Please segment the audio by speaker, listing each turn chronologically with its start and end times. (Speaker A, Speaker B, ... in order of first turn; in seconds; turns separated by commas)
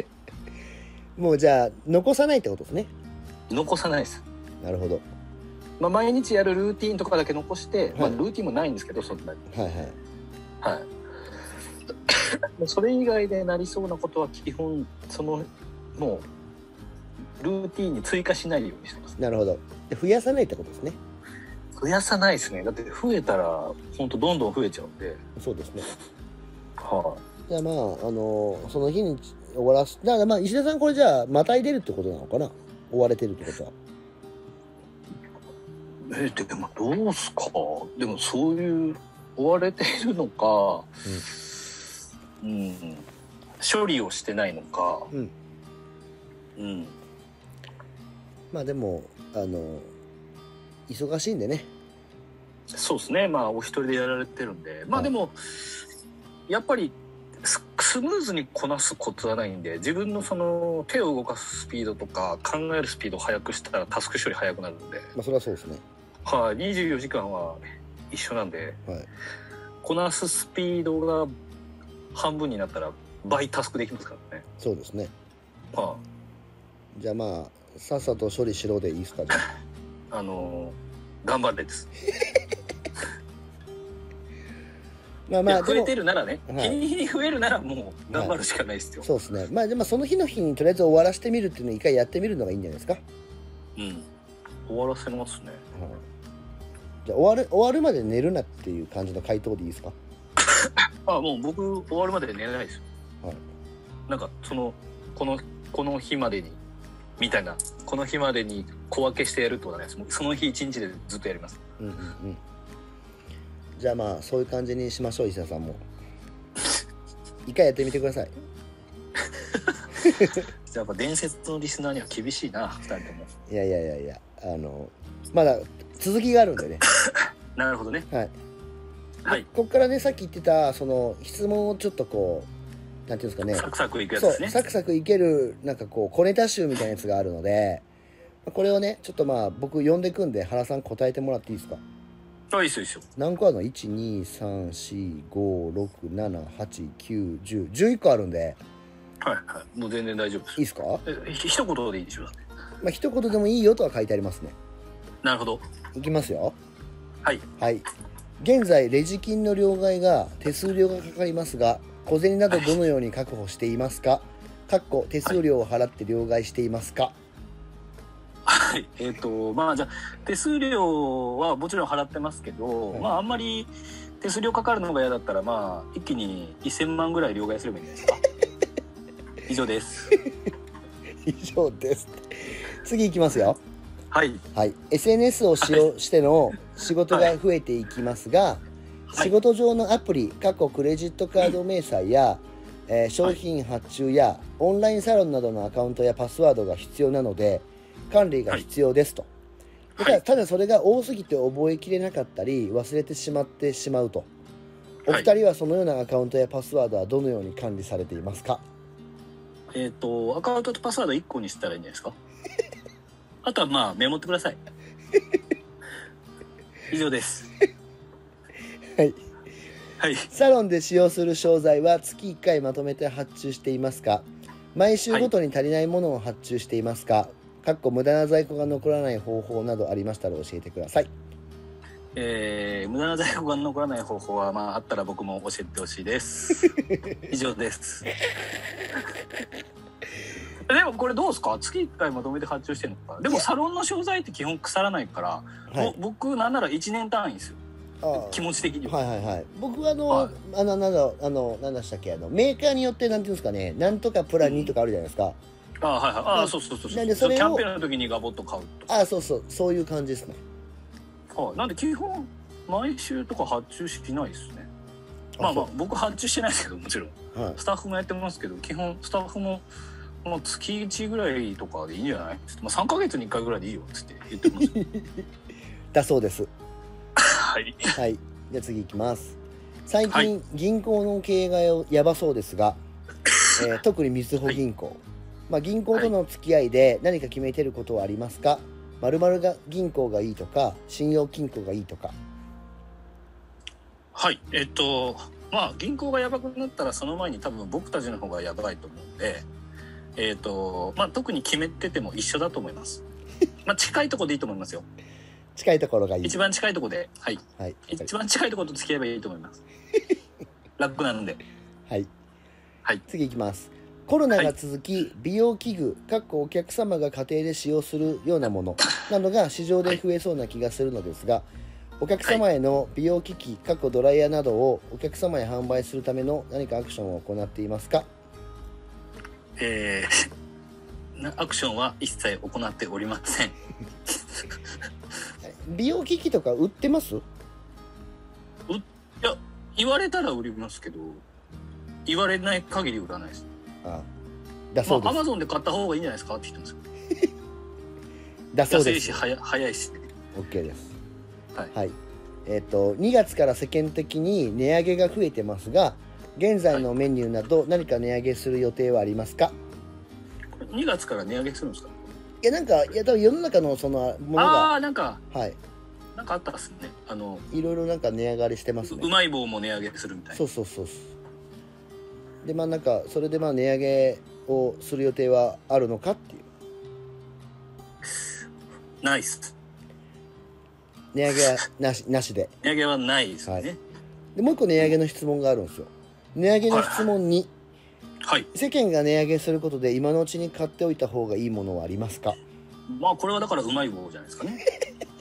Speaker A: 1.2-2.9, Speaker B: 3.5-4.2, Speaker A: 4.6-5.0, Speaker B: 5.8-9.4, Speaker A: 9.5-10.0, Speaker B: 10.6-10.9, Speaker B: 12.1-16.3, Speaker B: 17.4-19.2, Speaker A: 19.2-21.0, Speaker B: 21.8-25.2, Speaker A: 25.4-25.9, Speaker B: 26.8-27.2, Speaker A: 27.5-33.7, Speaker B: 36.0-41.5, Speaker B: 42.4-43.1, Speaker B: 43.6-45.1, Speaker B: 46.6-47.0, Speaker A: 48.5-49.9, Speaker A: 50.9-51.7, Speaker B: 52.7-55.8, Speaker B: 56.5-65.1, Speaker A: 65.2-65.8, Speaker B: 66.2-68.8, Speaker B: 69.8-71.3, Speaker B: 72.1-74.5, Speaker A: 74.6-75.1, Speaker B: 75.7-76.0, Speaker A: 77.0-79.5, Speaker B: 80.1-81.9, Speaker A: 85.3-86.0, Speaker B: 85.5-89.1, Speaker A: 86.5-86.8, Speaker A: 89.0-93.0, Speaker B: 93.8-94.1, Speaker B: 94.7-95.6, Speaker A: 95.8-96.0, Speaker A: 97.0-100.0, Speaker B: 100.5-102.8, Speaker B: 104.1-106.6, Speaker B: 107.2-111.6, Speaker A: 111.8-112.4, Speaker A: 113.8-115.8, Speaker A: 117.5-118.3, Speaker B: 119.4-119.8, Speaker A: 120.1-120.4, Speaker B: 120.7-123.3, Speaker A: 123.5-126.9, Speaker B: 127.0-128.1, Speaker A: 129.3-132.5, Speaker A: 133.1-137.8, Speaker B: 133.5-134.6, Speaker A: 138.5-141.8, Speaker B: 142.5-143.1, Speaker A: 143.2-148.6, Speaker B: 149.2-152.4, Speaker A: 150.6-151.1, Speaker A: 152.8-154.6, Speaker B: 155.2-155.6, Speaker A: 155.9-156.6, Speaker A: 157.6-157.9, Speaker A: 158.4-167.2, Speaker B: 162.5-162.8, Speaker B: 168.4-178.2, Speaker B: 179.5-180.1, Speaker A: 181.2-183.6, Speaker B: 184.1-184.4, Speaker A: 184.6-188.6, Speaker A: 189.2-199.3, Speaker B: 200.0-200.2, Speaker A: 200.0-204.3, Speaker A: 205.1-208.6, Speaker B: 209.7-212.2, Speaker B: 213.4-214.6, Speaker B: 216.9-217.5, Speaker B: 220.0-220.3, Speaker A: 220.3-231.1, Speaker B: 232.2-236.8, Speaker B: 237.3-238.1, Speaker B: 240.7-247.6, Speaker A: 245.7-246.0, Speaker A: 248.0-255.4, Speaker B: 248.1-249.0, Speaker B: 254.4-254.8, Speaker B: 255.8-258.9, Speaker A: 256.3-257.6, Speaker A: 258.9-260.4, Speaker B: 261.3-264.7, Speaker A: 265.4-265.7, Speaker B: 265.4-269.6, Speaker A: 267.3-267.6, Speaker B: 270.2-274.7, Speaker A: 274.6-275.2, Speaker A: 275.9-276.5, Speaker B: 277.2-278.0, Speaker A: 277.9-282.8, Speaker A: 283.5-292.1, Speaker B: 294.1-299.5, Speaker B: 300.2-303.0, Speaker B: 303.6-304.9, Speaker A: 305.6-306.4, Speaker B: 306.2-309.6, Speaker A: 307.6-308.1, Speaker B: 310.8-311.4, Speaker A: 313.1-321.5, Speaker A: 322.0-328.1, Speaker B: 329.6-330.3, Speaker B: 331.1-334.6, Speaker A: 335.5-337.2, Speaker B: 338.7-341.2, Speaker B: 342.1-343.5, Speaker A: 344.7-345.2, Speaker B: 344.9-346.8, Speaker A: 348.5-349.2, Speaker B: 348.7-350.1, Speaker A: 350.4-350.9, Speaker A: 352.5-359.6, Speaker B: 360.6-362.0, Speaker A: 362.4-364.8, Speaker B: 364.4-365.2, Speaker A: 365.3-365.6, Speaker B: 366.1-367.5, Speaker A: 367.5-369.1, Speaker B: 368.9-370.4, Speaker A: 370.3-371.1, Speaker A: 372.4-376.5, Speaker B: 379.0-379.5, Speaker A: 381.1-382.5, Speaker B: 382.6-383.8, Speaker A: 384.4-387.5, Speaker B: 386.7-387.1, Speaker B: 388.2-388.5, Speaker A: 388.5-392.4, Speaker B: 392.9-394.6